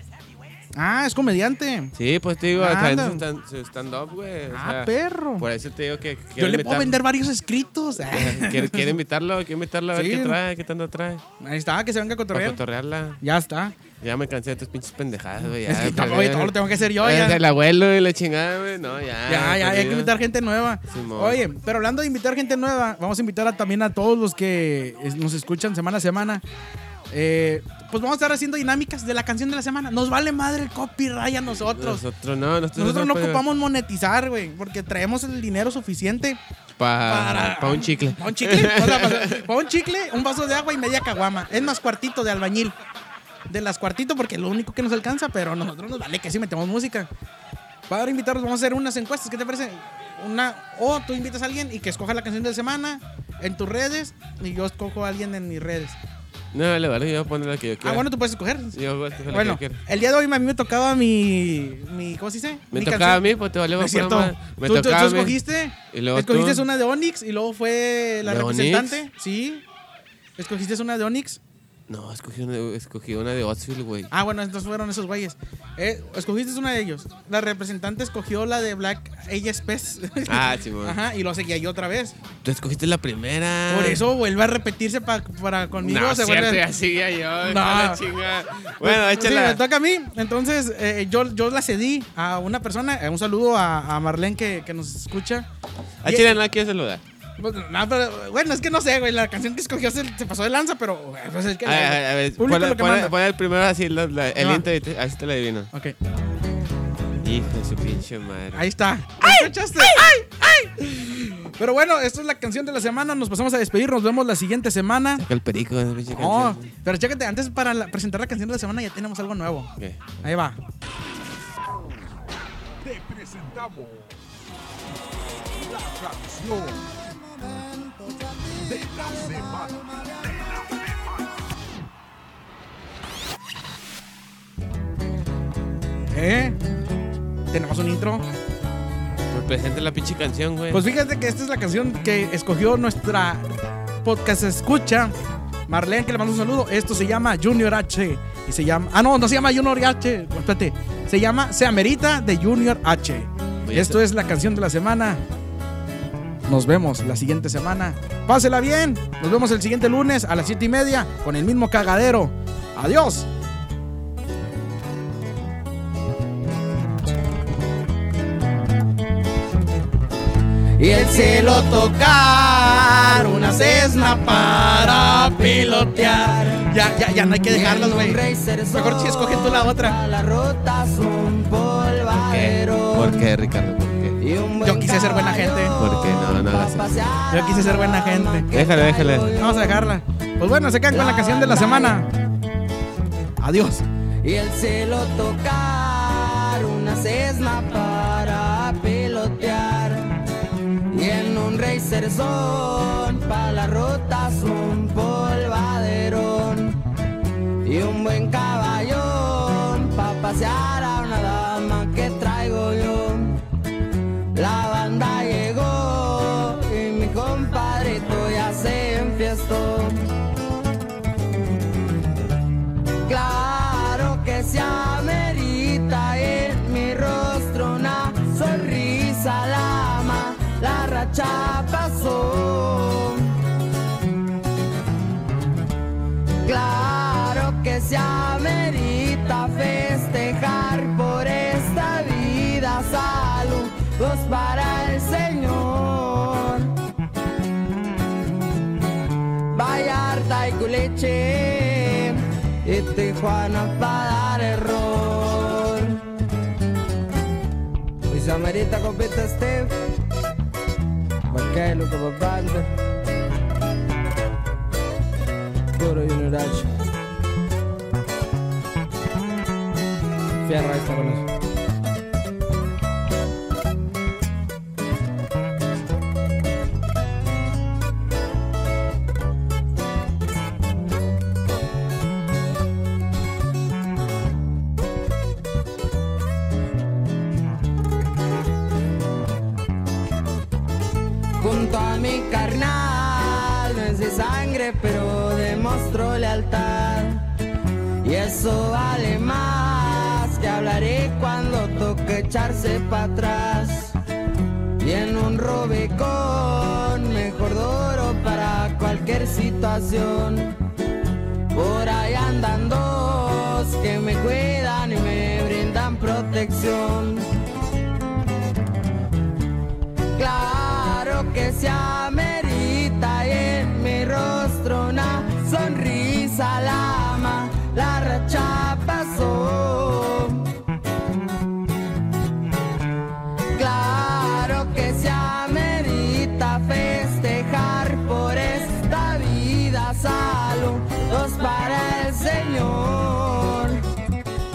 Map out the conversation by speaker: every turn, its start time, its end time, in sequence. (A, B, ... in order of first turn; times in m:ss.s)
0:00.8-0:02.0 A
0:02.0-0:07.0 B
0:02.6-0:03.2 A
0:04.5-0:05.5 A
0:06.4-0:08.9 A
0:08.0-0:11.2 B
0:09.9-0:10.4 A
0:11.4-0:12.6 A
0:12.3-0:13.2 B
0:13.2-0:13.8 A
0:14.0-0:20.1 B
0:15.7-0:17.4 A
0:19.3-0:26.4 A
0:20.9-0:21.4 B
0:27.1-0:32.0 A
0:31.6-0:33.5 B
0:32.8-0:36.4 A
0:36.8-0:39.5 B
0:37.0-0:42.8 A
0:43.5-0:47.1 A
0:47.9-0:56.0 A
0:56.5-0:58.1 B
0:57.8-1:03.2 A
0:58.7-0:59.8 B
1:02.7-1:05.4 B
1:03.8-1:09.6 A
1:05.9-1:06.6 B
1:08.2-1:09.0 B
1:10.4-1:11.4 A
1:11.9-1:14.1 B
1:14.1-1:22.2 A
1:20.3-1:21.0 B
1:22.4-1:24.1 B
1:23.7-1:26.6 A
1:25.8-1:29.6 B
1:27.4-1:28.0 A
1:28.8-1:35.5 A
1:36.0-1:37.0 B
1:36.0-1:36.4 A
1:37.4-1:43.1 A
1:41.6-1:45.7 B
1:44.4-1:44.6 A
1:47.2-1:48.7 B
1:48.5-1:55.2 A
1:49.2-1:50.2 B
1:55.2-1:56.7 B
1:56.1-1:59.7 A
1:59.8-2:00.1 B
2:00.2-2:00.6 A
2:02.8-2:04.2 C
2:05.5-2:07.3 C
2:08.6-2:10.9 C
2:16.1-2:16.6 A
2:17.5-2:18.3 A
2:19.3-2:20.8 B
2:20.7-2:25.2 A
2:25.7-2:35.2 A
2:33.7-2:34.0 B
2:36.5-2:43.3 A
2:50.8-2:56.7 D
2:50.9-3:00.0 A
2:57.5-3:03.2 D
3:02.2-3:04.2 B
3:04.2-3:09.9 D
3:04.6-3:05.8 A
3:05.8-3:07.1 B
3:07.3-3:08.5 A
3:08.5-3:09.4 B
3:09.4-3:12.1 A
3:10.9-3:12.0 D
3:13.4-3:13.8 A
3:14.2-3:20.2 D
3:20.9-3:26.8 D
3:27.6-3:33.4 D
3:34.3-3:40.0 D
3:43.1-3:53.4 D
3:56.4-4:06.8 D
4:09.5-4:16.0 D
4:18.1-4:19.9 D
4:21.3-4:22.8 D
4:25.7-4:26.7 D
4:30.4-4:31.3 D
4:51.4-4:57.3 D
4:58.0-5:04.0 D
5:04.8-5:10.6 D
5:11.5-5:17.3 D
5:20.2-5:30.5 D
5:33.5-5:43.8 D